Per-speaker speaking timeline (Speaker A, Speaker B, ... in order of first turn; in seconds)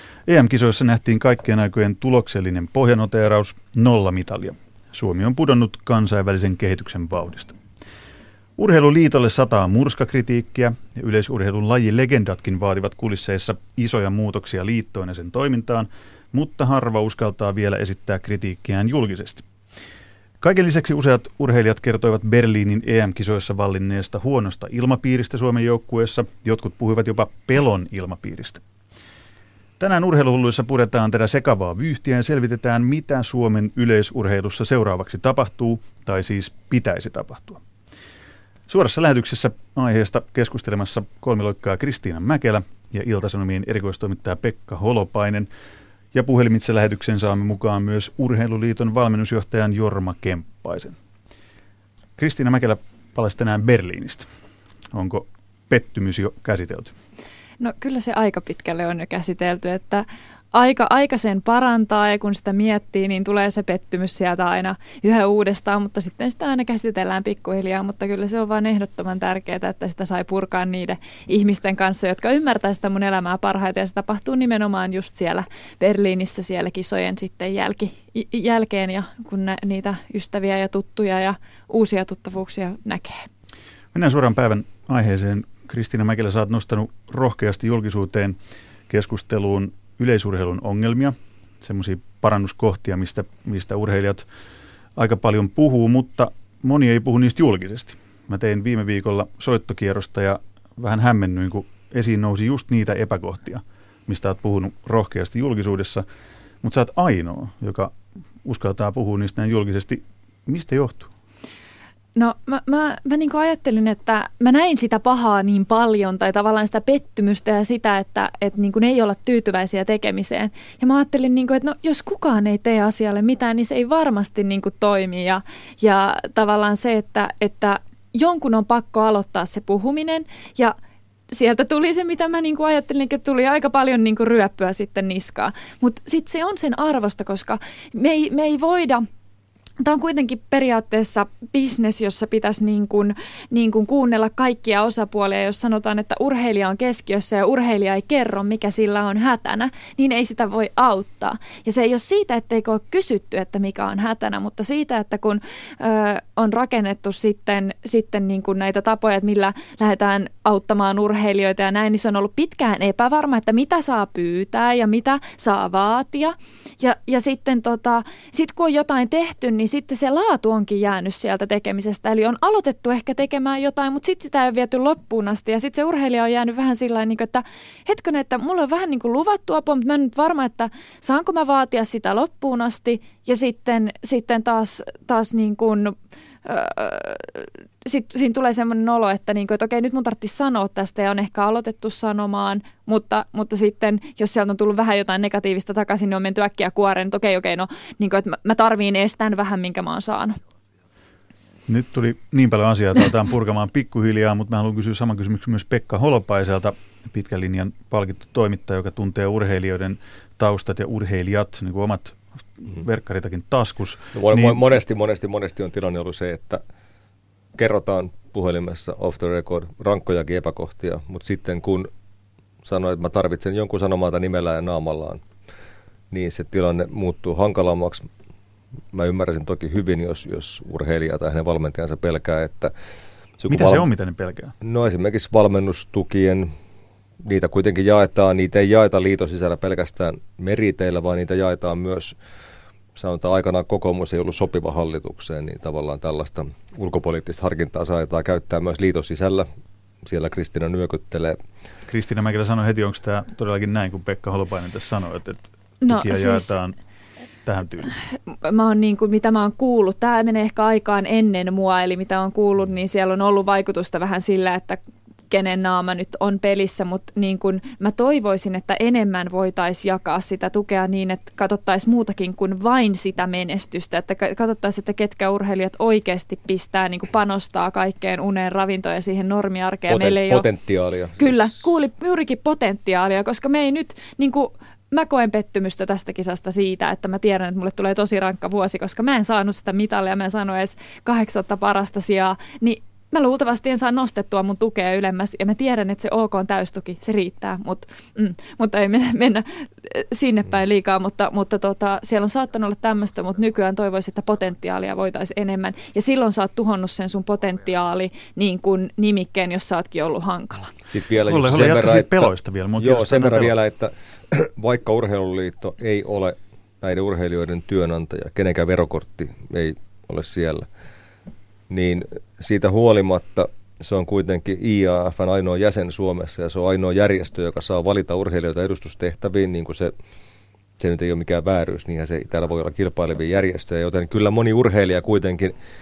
Speaker A: 0.3-7.6, 8.6-19.5, 20.4-28.6, 29.8-37.6, 38.7-45.5, 46.1-51.0, 52.2-54.3, 54.9-57.0, 83.9-88.4, 88.9-94.3, 95.0-106.0, 106.6-111.1, 201.7-214.6, 233.5-234.6, 251.9-256.8, 257.4-258.0, 311.3-313.5
Speaker B: 57.6-83.3, 112.2-130.8, 131.3-139.0, 139.8-185.9, 186.4-200.4, 255.8-256.5, 258.4-264.8, 265.3-280.5, 281.2-310.7
Speaker C: 214.1-216.6, 217.6-221.9, 222.6-225.2, 226.1-228.1, 228.9-232.7, 233.4-233.8, 234.6-236.5, 237.2-242.2, 242.9-249.5, 250.0-251.4, 279.9-281.5, 310.9-320.7, 321.7-329.9, 330.8-335.5